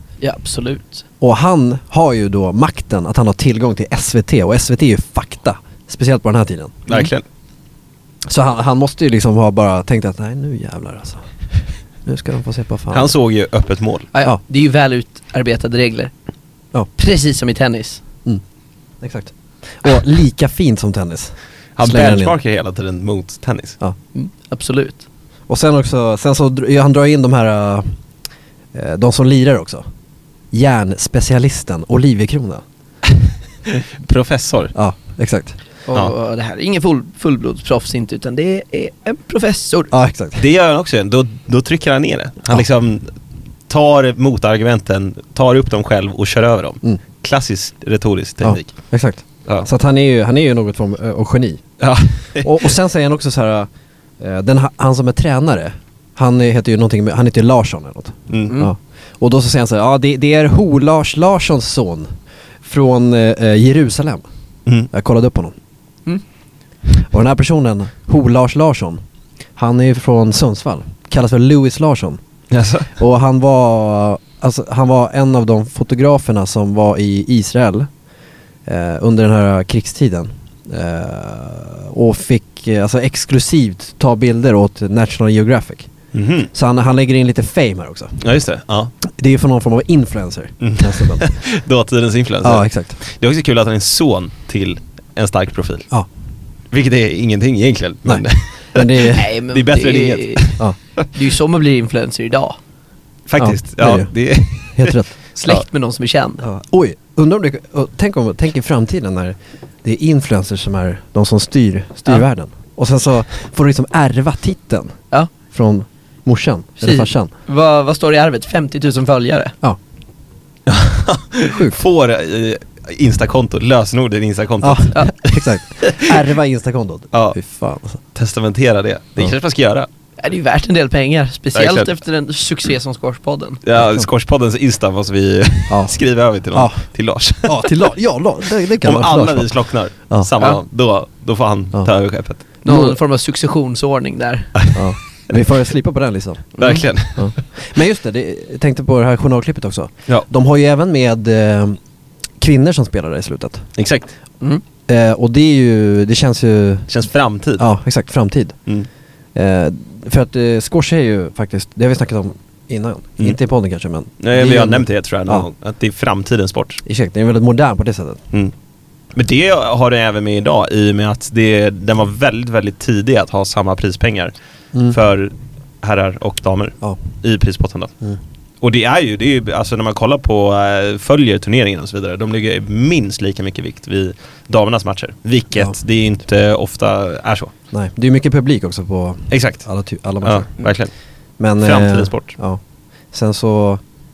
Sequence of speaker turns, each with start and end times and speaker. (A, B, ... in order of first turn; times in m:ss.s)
0:00.2-0:01.0 A
0:01.2-0:06.9 B
0:06.9-0:07.2 C
0:08.3-0:11.2 B
0:12.0-0:13.1 B
0:12.9-0:14.1 C
0:14.1-0:16.1 A
0:17.0-0:18.0 A
0:19.0-0:22.3 B
0:21.8-0:23.8 C
0:24.1-0:25.0 A
0:25.5-0:27.9 B
0:28.7-0:29.8 B
0:30.5-0:32.6 B
0:33.7-0:34.7 C
0:34.7-0:35.6 B
0:35.9-0:39.9 A
0:39.9-0:40.4 B
0:40.4-0:43.1 C
0:43.7-0:48.7 C
0:48.4-0:51.6 B
0:51.8-0:52.7 C
0:52.4-1:04.2 B
0:58.3-0:58.6 C
1:04.9-1:05.5 B
1:07.0-1:09.0 B
1:09.6-1:12.2 B
1:12.5-1:12.9 C
1:13.0-1:17.9 B
1:18.6-1:25.9 B
1:26.1-1:26.5 C
1:26.5-1:28.2 B
1:28.2-1:28.9 C
1:29.1-1:31.3 B
1:30.6-1:35.9 C
1:32.4-1:33.0 B
1:36.7-1:41.0 C
1:38.0-1:39.3 B
1:39.1-1:40.5 A
1:41.1-1:42.6 A
1:43.3-1:45.6 C
1:43.4-1:44.1 B
1:44.7-1:45.1 B
1:45.4-1:46.4 A
1:46.4-1:54.9 B
1:55.5-1:57.3 B
1:56.8-1:59.5 A
2:00.7-2:06.2 C
2:01.5-2:01.8 B
2:04.6-2:08.0 B
2:07.1-2:07.4 C
2:08.1-2:09.9 C
2:10.2-2:13.6 A
2:11.5-2:11.9 C
2:13.6-2:17.7 C
2:15.7-2:16.0 B
2:16.5-2:16.8 B
2:17.4-2:19.5 B
2:18.8-2:22.4 C
2:22.6-2:24.5 A
2:22.7-2:23.0 B
2:24.5-2:24.8 C
2:24.7-2:26.6 B
2:26.6-2:27.4 C
2:27.2-2:31.8 B
2:32.4-2:33.7 B
2:33.8-2:34.1 C
2:34.9-2:36.9 B
2:36.9-2:37.7 C
2:37.6-2:38.6 B
2:39.3-2:45.5 B
2:44.2-2:46.8 C
2:46.8-2:48.2 B
2:49.1-2:54.3 C
2:54.9-2:57.9 C
2:58.6-3:07.5 C
3:07.7-3:10.6 B
3:09.3-3:09.6 C
3:10.2-3:10.9 C
3:11.4-3:12.6 B
3:11.6-3:12.3 C
3:13.1-3:13.8 B